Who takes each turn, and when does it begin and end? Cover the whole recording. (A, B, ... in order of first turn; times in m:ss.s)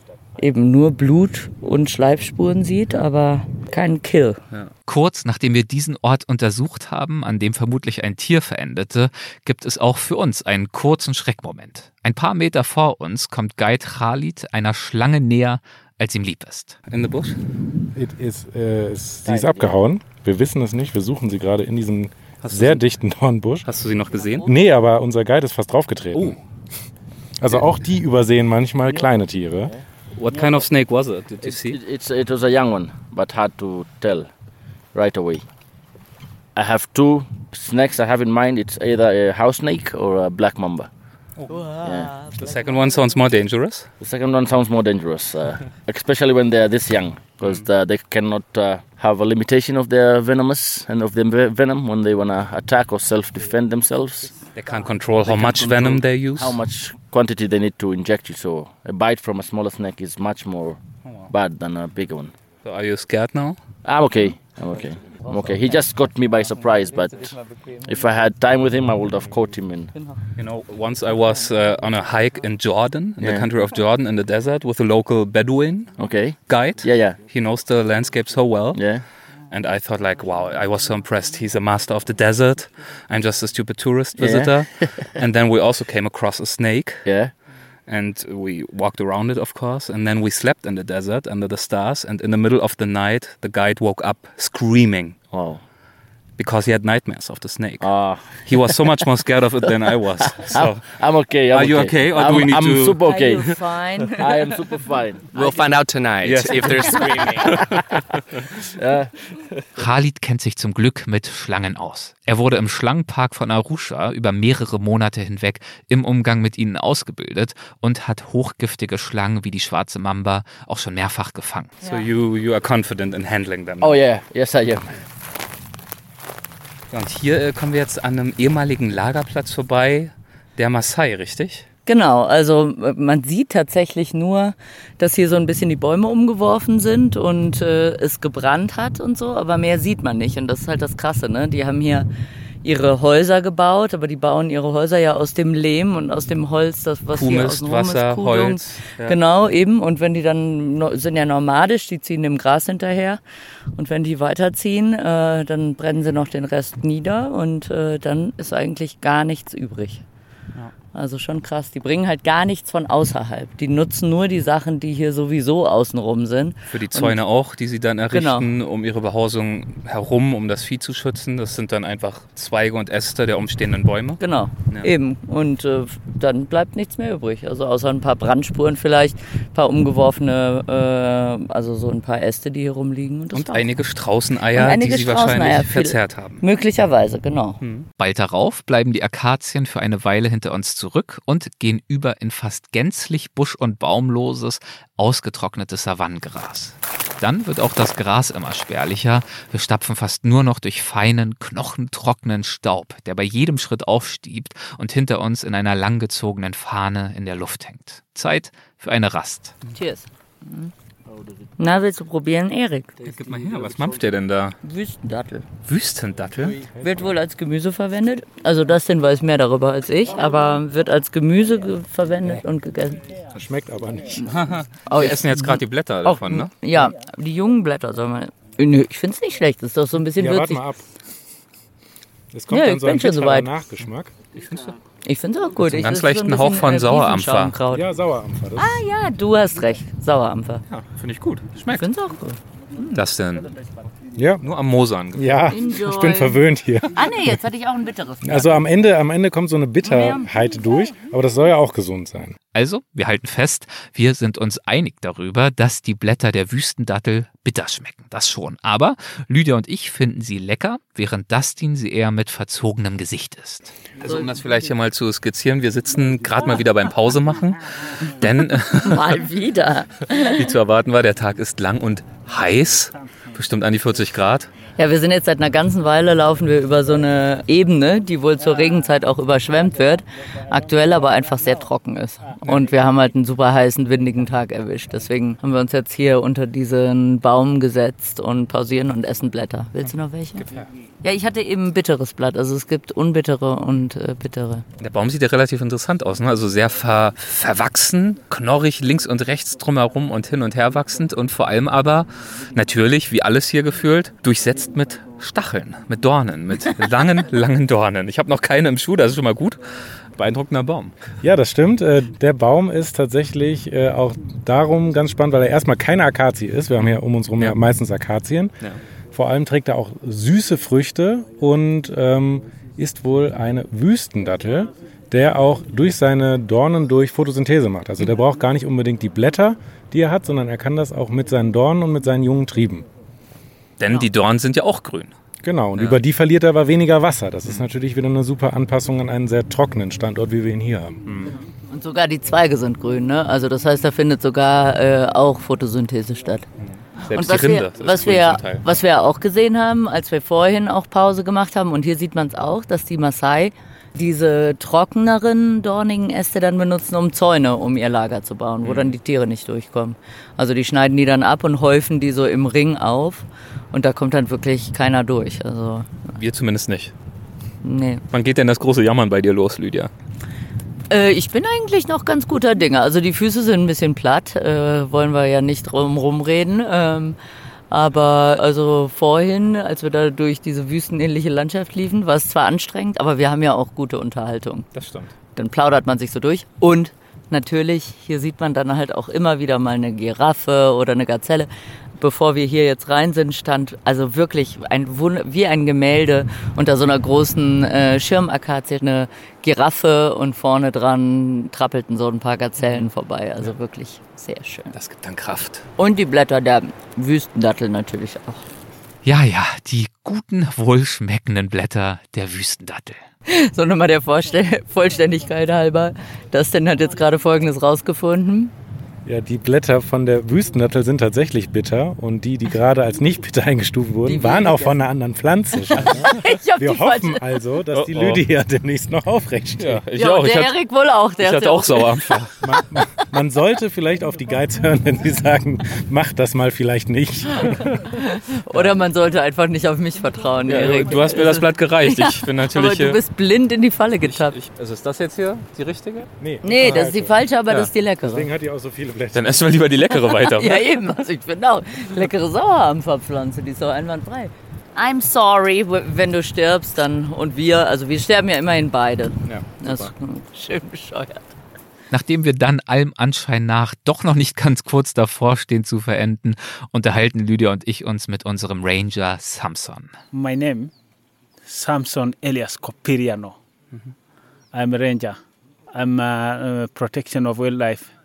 0:00.4-0:04.4 A
0:04.9-0:16.8 B
0:16.9-0:17.4 C
0:17.9-0:23.7 D
0:19.2-0:19.8 E
0:22.4-0:22.8 C
0:23.6-0:24.5 C
0:24.4-0:26.4 D
0:27.4-0:29.7 D
0:30.1-0:31.8 C
0:31.4-0:34.3 E
0:34.9-0:35.4 E
0:36.5-0:40.9 E
0:41.5-0:43.0 A
0:41.8-0:42.1 E
0:42.4-0:43.9 C
0:44.0-0:54.4 E
0:54.5-0:56.6 C
0:55.2-1:02.3 E
1:01.0-1:01.3 C
1:02.6-1:03.6 C
1:03.8-1:09.9 E
1:05.1-1:05.8 A
1:06.9-1:07.8 A
1:09.9-1:10.2 A
1:10.4-1:15.9 C
1:13.2-1:13.5 E
1:16.0-1:17.2 E
1:16.4-1:18.8 C
1:18.7-1:19.0 E
1:19.5-1:27.1 C
1:24.2-1:25.1 E
1:27.0-1:27.3 E
1:27.9-1:35.2 C
1:35.3-1:35.6 E
1:36.4-1:37.9 C
1:37.8-1:39.1 E
1:38.4-1:40.8 C
1:39.6-1:43.5 E
1:41.5-1:43.0 C
1:43.0-1:44.4 A
1:44.2-1:45.5 E
1:45.3-1:47.8 F
1:46.2-1:48.4 C
1:47.1-1:47.5 E
1:48.7-1:49.1 E
1:49.8-2:01.8 B
2:01.8-2:04.0 C
2:03.8-2:04.9 E
2:06.9-2:11.6 C
2:11.8-2:22.1 A
2:22.6-2:33.2 A
2:27.1-2:29.2 C
2:33.8-2:40.0 A
2:40.9-2:47.2 A
2:46.7-2:54.9 C
2:48.1-2:48.5 A
2:54.2-3:03.7 A
3:03.3-3:06.4 C
3:04.5-3:07.6 A
3:07.6-3:07.9 C
3:08.0-3:29.6 B
3:29.7-3:30.7 A
3:31.6-3:33.0 A
3:33.0-3:34.6 C
3:34.6-3:35.5 A
3:35.6-3:36.6 C
3:36.8-3:37.0 D
3:36.8-3:43.2 A
3:43.3-3:44.3 D
3:44.2-3:46.5 C
3:44.8-3:50.6 A
3:50.2-3:50.8 D
3:52.3-3:54.1 D
3:52.5-3:53.5 A
3:54.3-3:54.8 C
3:55.0-3:57.8 A
3:55.6-3:57.6 C
3:57.7-3:58.8 D
3:58.6-4:00.6 A
4:00.7-4:01.9 C
4:01.7-4:02.9 A
4:02.9-4:03.5 C
4:04.1-4:04.4 D
4:04.4-4:05.4 C
4:05.1-4:07.4 D
4:05.5-4:06.4 A
4:06.9-4:08.6 A
4:08.2-4:12.4 D
4:09.8-4:10.3 A
4:12.5-4:23.8 B
4:24.0-4:29.2 C
4:28.8-4:30.5 A
4:30.1-4:34.5 C
4:34.8-4:50.5 A
4:51.0-4:54.6 A
4:54.8-5:11.0 C
5:11.2-5:18.6 D
5:19.1-5:32.8 D
5:33.8-5:35.1 C
5:35.4-5:41.0 D
5:41.0-5:41.4 C
5:41.7-5:46.4 A
5:47.0-5:48.7 C
5:47.1-6:05.9 A
5:58.6-5:58.9 C
6:06.2-6:06.9 C
6:07.6-6:08.0 A
6:08.1-6:09.9 C
6:10.9-6:17.2 A
6:17.7-6:24.7 A
6:24.7-6:25.1 C
6:25.4-6:44.7 A
6:44.7-6:45.6 C
6:45.8-6:48.4 A
6:49.0-6:53.0 B
6:53.3-6:58.5 A
6:59.0-7:09.8 D
7:04.0-7:04.8 A
7:05.7-7:07.2 A
7:05.8-7:06.1 C
7:07.7-7:08.2 C
7:09.6-7:10.5 C
7:10.0-7:12.2 A
7:11.2-7:12.4 C
7:12.4-7:17.6 D
7:18.0-7:24.4 A
7:20.5-7:23.0 C
7:24.0-7:26.1 C
7:26.2-7:27.2 D
7:26.4-7:28.3 A
7:28.0-7:29.6 D
7:29.1-7:30.7 C
7:29.9-7:41.3 A
7:39.2-7:39.9 C
7:41.9-7:49.9 B
7:50.1-7:50.7 G
7:51.4-7:53.4 G
7:54.5-7:55.2 G
7:55.7-7:57.9 G